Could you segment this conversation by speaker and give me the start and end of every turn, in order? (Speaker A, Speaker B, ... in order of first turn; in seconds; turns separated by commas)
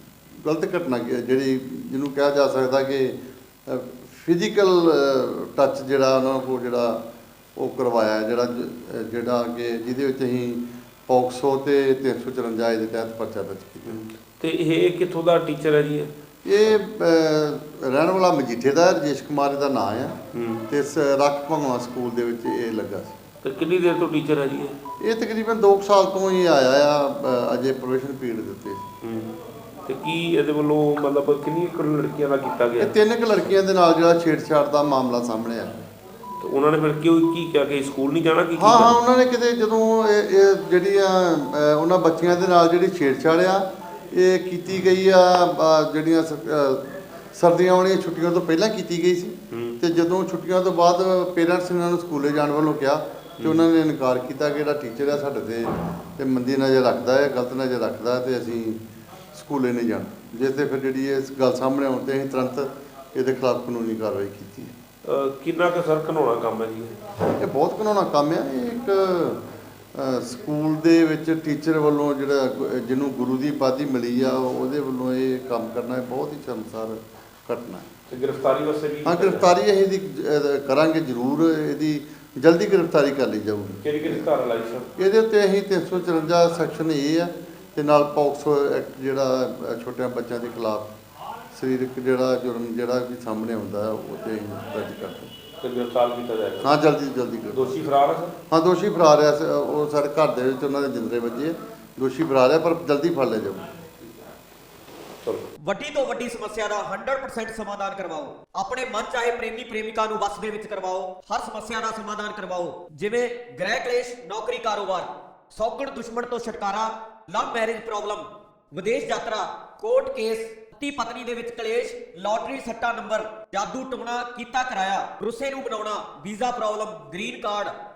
Speaker A: 0.4-7.0, Speaker A: 7.6-14.0, Speaker B: 13.8-16.1, Speaker A: 16.4-23.2, Speaker B: 20.3-20.6, Speaker B: 23.4-24.8, Speaker A: 25.0-28.9, Speaker B: 29.0-29.4, Speaker B: 29.9-33.0, Speaker A: 32.8-35.8, Speaker B: 36.4-39.0, Speaker A: 38.5-58.8, Speaker B: 49.5-49.8, Speaker B: 53.4-53.6, Speaker A: 59.3-64.7, Speaker B: 65.0-67.0, Speaker A: 67.4-69.4, Speaker A: 69.9-77.9, Speaker B: 78.1-79.5, Speaker A: 79.0-84.3, Speaker B: 83.8-84.9, Speaker A: 85.0-90.9, Speaker A: 91.5-95.3, Speaker B: 95.6-96.8, Speaker A: 96.6-97.9, Speaker B: 97.5-98.4, Speaker A: 98.5-103.7, Speaker C: 105.6-127.8